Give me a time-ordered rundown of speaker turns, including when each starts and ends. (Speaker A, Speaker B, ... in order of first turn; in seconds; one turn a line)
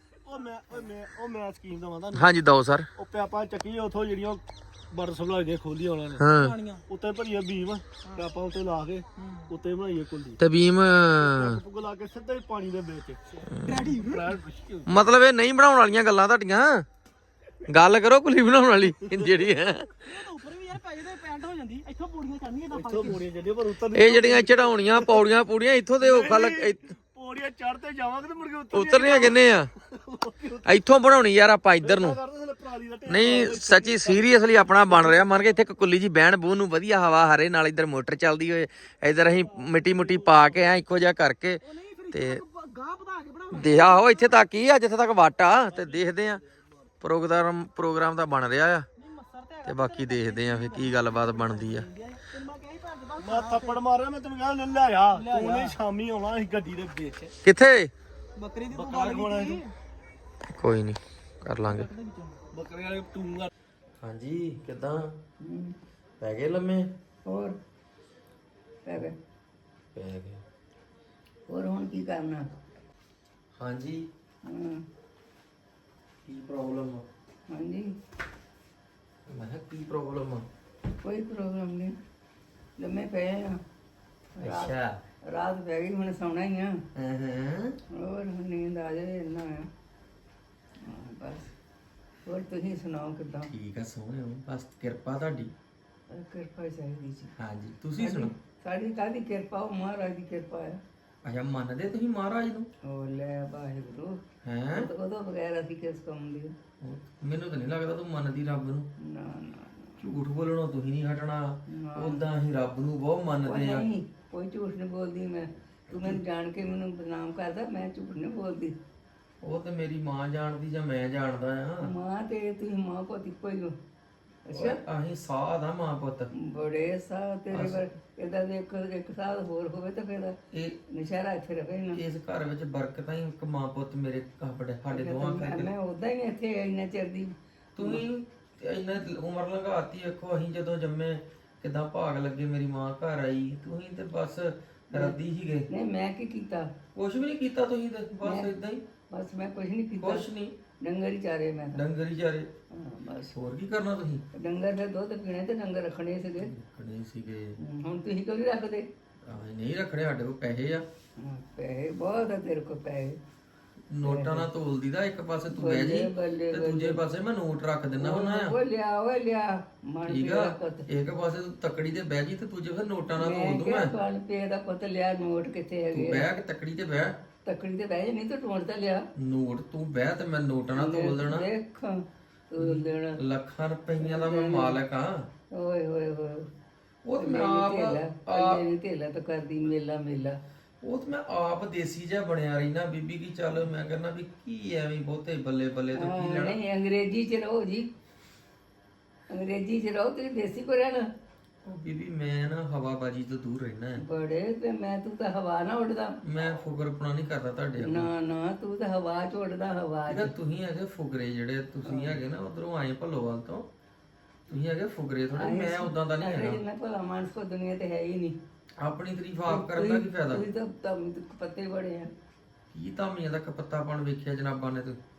Speaker A: 0.2-2.3
Speaker B: 2.1-2.9
Speaker A: 3.0-6.2
Speaker B: 6.2-6.6
Speaker C: 6.3-6.8
Speaker A: 6.9-10.4
Speaker C: 9.2-9.5
Speaker B: 10.4-11.6
Speaker A: 11.2-14.9
Speaker B: 13.5-13.9
Speaker C: 13.6-14.4
Speaker B: 14.9-16.8
Speaker B: 17.7-20.1
Speaker C: 20.0-23.2
Speaker A: 22.7-25.2
Speaker B: 23.9-26.9
Speaker A: 26.0-29.4
Speaker B: 28.7-29.7
Speaker A: 29.9-30.7
Speaker B: 30.6-32.2
Speaker A: 31.8-34.3
Speaker B: 33.1-42.4
Speaker C: 41.6-44.4
Speaker B: 43.5-46.4
Speaker B: 47.0-48.9
Speaker C: 49.0-53.8
Speaker B: 49.6-51.9
Speaker A: 53.2-57.3
Speaker C: 55.1-55.8
Speaker B: 57.4-57.9
Speaker C: 58.4-59.7
Speaker A: 58.7-59.6
Speaker B: 60.5-61.9
Speaker C: 61.6-62.4
Speaker A: 62.5-63.5
Speaker B: 64.0-65.1
Speaker D: 65.4-65.7
Speaker B: 66.2-66.9
Speaker D: 67.2-67.5
Speaker D: 68.8-69.2
Speaker B: 69.9-70.4
Speaker D: 71.5-72.5
Speaker B: 73.6-74.1
Speaker D: 74.4-74.8
Speaker B: 76.2-77.0
Speaker D: 77.5-78.0
Speaker B: 79.3-80.5
Speaker D: 81.0-82.0
Speaker D: 82.8-83.6
Speaker D: 84.3-84.7
Speaker B: 84.4-85.0
Speaker D: 85.2-86.8
Speaker B: 86.9-87.8
Speaker D: 87.9-89.7
Speaker D: 90.8-91.5
Speaker D: 92.2-93.5
Speaker B: 93.5-95.5
Speaker D: 96.1-97.3
Speaker B: 97.4-98.3
Speaker D: 98.0-100.8
Speaker B: 101.2-102.7
Speaker D: 102.8-104.2
Speaker B: 104.4-104.9
Speaker D: 104.7-106.5
Speaker B: 106.8-108.9
Speaker D: 109.0-110.0
Speaker B: 110.0-113.8
Speaker D: 111.7-112.2
Speaker D: 113.4-118.8
Speaker B: 119.4-121.9
Speaker D: 121.8-123.8
Speaker D: 124.4-124.8
Speaker B: 124.5-126.3
Speaker D: 126.3-130.4
Speaker B: 127.5-127.8
Speaker B: 130.5-130.8
Speaker D: 130.9-132.0
Speaker B: 131.9-135.7
Speaker D: 134.9-138.0
Speaker B: 137.8-145.7
Speaker D: 145.7-146.7
Speaker B: 146.9-148.8
Speaker D: 148.2-148.5
Speaker D: 149.1-150.3
Speaker B: 150.0-150.5
Speaker D: 150.8-151.8
Speaker B: 151.7-152.5
Speaker D: 152.7-153.3
Speaker B: 153.3-154.2
Speaker D: 154.3-156.5
Speaker B: 156.4-157.6
Speaker D: 157.6-158.9
Speaker B: 159.2-160.8
Speaker D: 161.2-163.2
Speaker B: 163.9-168.6
Speaker D: 164.0-164.5
Speaker D: 165.5-167.0
Speaker D: 168.0-170.9
Speaker B: 170.1-173.9
Speaker D: 173.2-176.3
Speaker B: 175.9-177.2
Speaker D: 177.4-179.1
Speaker B: 179.2-181.4
Speaker D: 180.7-183.2
Speaker B: 182.6-185.3
Speaker D: 184.0-184.8
Speaker D: 185.5-186.5
Speaker B: 187.0-188.6
Speaker D: 187.2-190.4
Speaker B: 190.8-196.6
Speaker D: 195.9-197.9
Speaker D: 199.3-201.1
Speaker B: 201.6-204.0
Speaker D: 204.0-206.2
Speaker B: 206.2-208.1
Speaker D: 207.8-210.3
Speaker B: 210.1-213.7
Speaker D: 211.8-212.2
Speaker B: 214.5-216.6
Speaker D: 215.3-218.4
Speaker B: 218.8-220.4
Speaker D: 219.5-222.1
Speaker B: 222.7-225.0